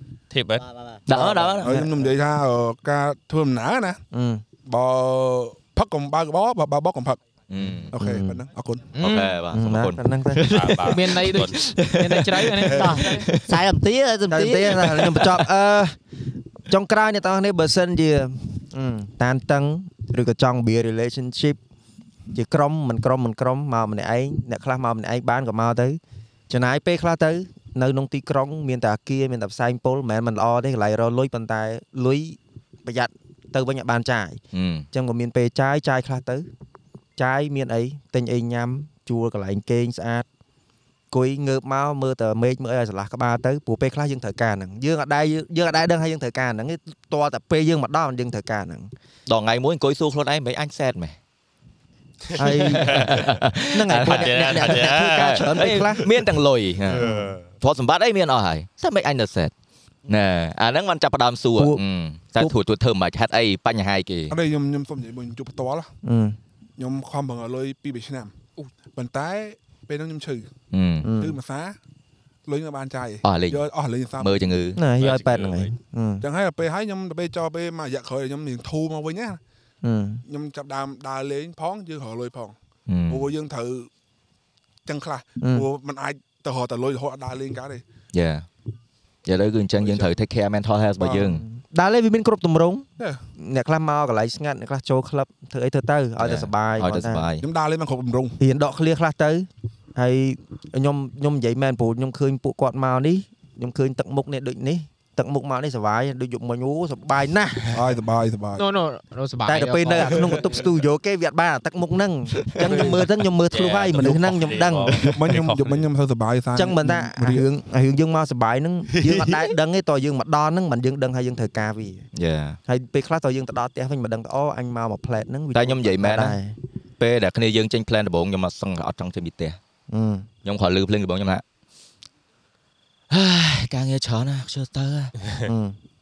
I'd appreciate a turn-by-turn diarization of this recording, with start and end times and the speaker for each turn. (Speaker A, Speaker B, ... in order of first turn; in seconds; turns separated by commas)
Speaker A: 0.3-0.6, Speaker B: 0.6-1.5, Speaker C: 1.1-1.8, Speaker D: 1.1-4.0, Speaker E: 1.6-2.1, Speaker E: 4.1-4.4, Speaker D: 4.6-7.2, Speaker C: 7.5-7.9, Speaker D: 7.9-8.9, Speaker E: 7.9-8.4, Speaker F: 9.0-9.3, Speaker C: 9.0-13.5, Speaker E: 9.5-10.6, Speaker A: 10.5-11.6, Speaker F: 10.9-13.3, Speaker D: 12.6-13.0, Speaker B: 12.7-14.9, Speaker E: 14.3-16.0, Speaker C: 14.8-15.5, Speaker E: 16.7-21.6, Speaker E: 22.3-34.4, Speaker C: 34.5-34.9, Speaker E: 34.9-36.5, Speaker E: 37.2-40.3, Speaker E: 41.1-48.9, Speaker C: 49.3-51.2, Speaker E: 52.4-56.1, Speaker C: 52.4-59.5, Speaker A: 52.7-53.4, Speaker A: 54.0-55.7, Speaker A: 56.9-57.5, Speaker E: 56.9-57.4, Speaker C: 60.1-64.4, Speaker E: 61.6-61.8, Speaker D: 64.3-65.9, Speaker E: 66.0-66.4, Speaker D: 66.8-68.3, Speaker D: 68.9-70.5, Speaker C: 70.7-71.1, Speaker E: 71.0-71.4, Speaker D: 71.2-71.8, Speaker D: 72.5-74.4, Speaker C: 73.2-73.6, Speaker C: 74.2-74.8, Speaker E: 74.8-76.3, Speaker A: 75.0-75.7, Speaker D: 76.2-79.4, Speaker E: 79.8-80.2, Speaker D: 80.3-82.6, Speaker C: 82.9-83.3, Speaker D: 83.1-83.9, Speaker D: 84.9-87.8, Speaker C: 88.1-88.5, Speaker C: 89.3-91.4, Speaker D: 89.8-90.1, Speaker D: 91.0-91.4, Speaker E: 91.4-97.3, Speaker C: 96.2-97.5, Speaker D: 97.4-98.4, Speaker E: 98.4-107.8, Speaker D: 107.7-108.7, Speaker F: 108.6-110.5, Speaker E: 109.5-115.0, Speaker C: 112.5-113.0, Speaker F: 112.7-113.0, Speaker A: 113.5-115.9, Speaker D: 115.0-117.5, Speaker C: 115.0-115.3, Speaker E: 116.5-122.1, Speaker C: 118.9-119.5, Speaker C: 122.2-122.6, Speaker E: 122.7-126.6, Speaker C: 125.5-126.4, Speaker C: 127.0-129.6, Speaker E: 129.9-130.3, Speaker C: 130.4-131.4, Speaker C: 133.1-135.1, Speaker E: 135.5-135.8